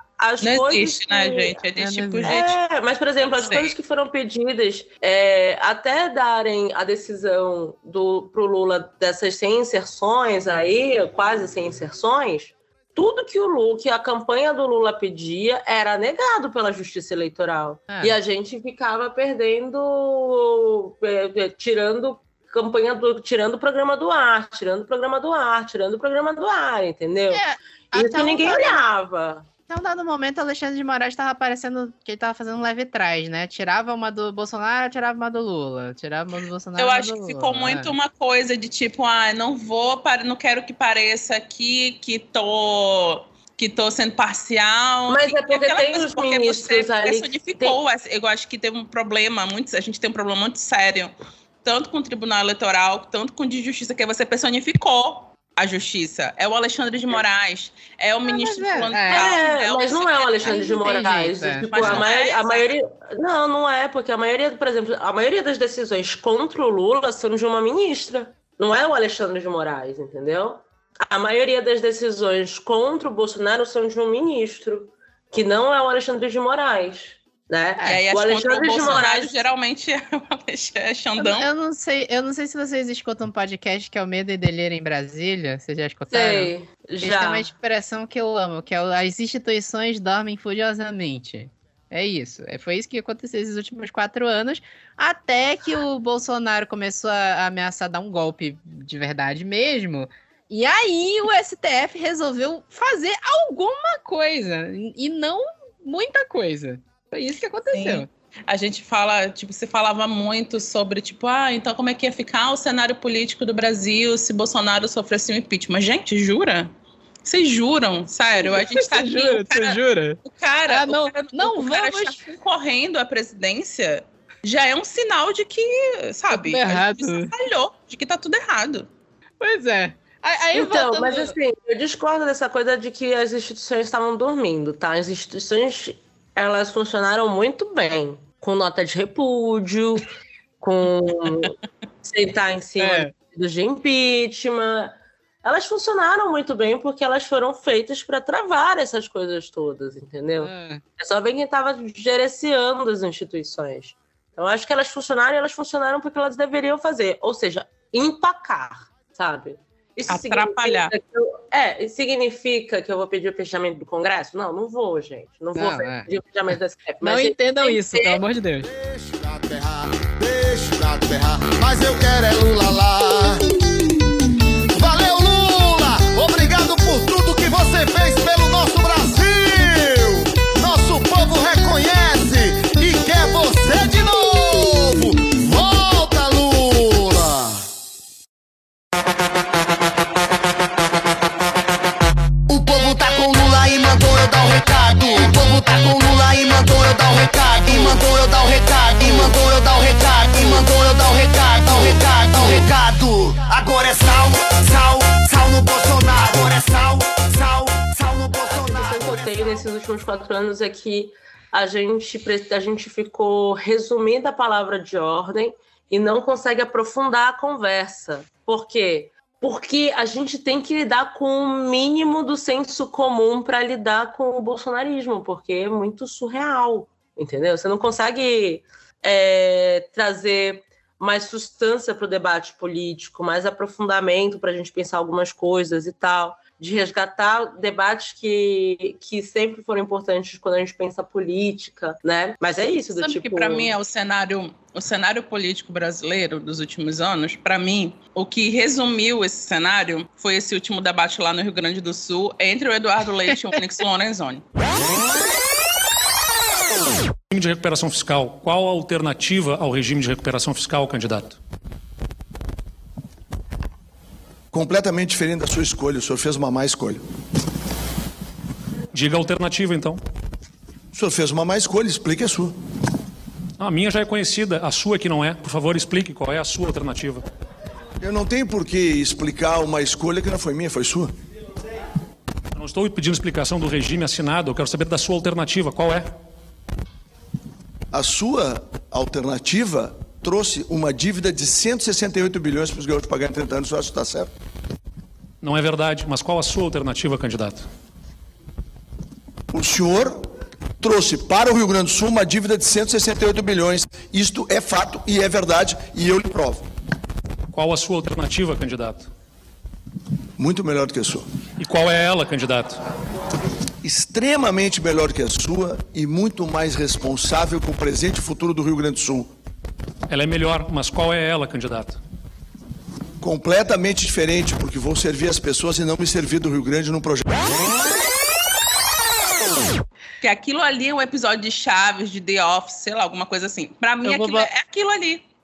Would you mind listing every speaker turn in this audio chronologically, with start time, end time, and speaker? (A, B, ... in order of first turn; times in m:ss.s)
0:00.2-0:01.6 A
0:00.4-0:02.6 B
0:01.8-0:02.4 C
0:02.2-0:29.5 A
0:03.4-0:03.7 B
0:27.3-0:28.8 C
0:29.7-0:37.9 C
0:36.8-1:00.6 B
0:45.1-0:47.8 A
0:58.2-0:59.3 C
0:59.1-1:19.4 A
1:00.4-1:01.7 C
1:01.7-1:02.7 B
1:17.8-1:21.5 B
1:21.2-1:48.1 C
1:26.1-1:27.5 A
1:47.7-1:56.7 B
1:57.2-2:08.9 B
1:58.4-2:02.3 C
2:06.3-2:07.3 C
2:09.4-2:11.3 C
2:10.5-2:48.2 A
2:22.8-2:23.1 C
2:30.4-2:30.8 C
2:40.1-2:40.9 B
2:45.5-2:46.1 C
2:47.0-2:48.7 C
2:48.8-2:53.4 D
2:54.7-3:07.5 D
3:12.5-3:29.2 D
3:28.5-4:03.7 A
4:02.9-4:14.4 B
4:17.3-4:21.4 E
4:24.5-4:27.0 F
4:28.9-4:30.0 E
4:30.9-4:32.6 F
4:33.6-4:37.2 E
4:38.0-4:41.1 F
4:42.5-4:46.1 E
4:47.9-4:54.3 F
4:55.4-4:57.6 E
4:59.5-5:00.3 F
5:00.8-5:06.6 F
5:07.5-5:09.1 E
5:10.4-5:11.2 F
5:11.6-5:12.8 E
5:13.8-5:19.3 F
5:20.1-5:22.0 E
5:23.2-5:27.5 F
5:30.2-5:35.2 B
5:34.0-5:34.5 C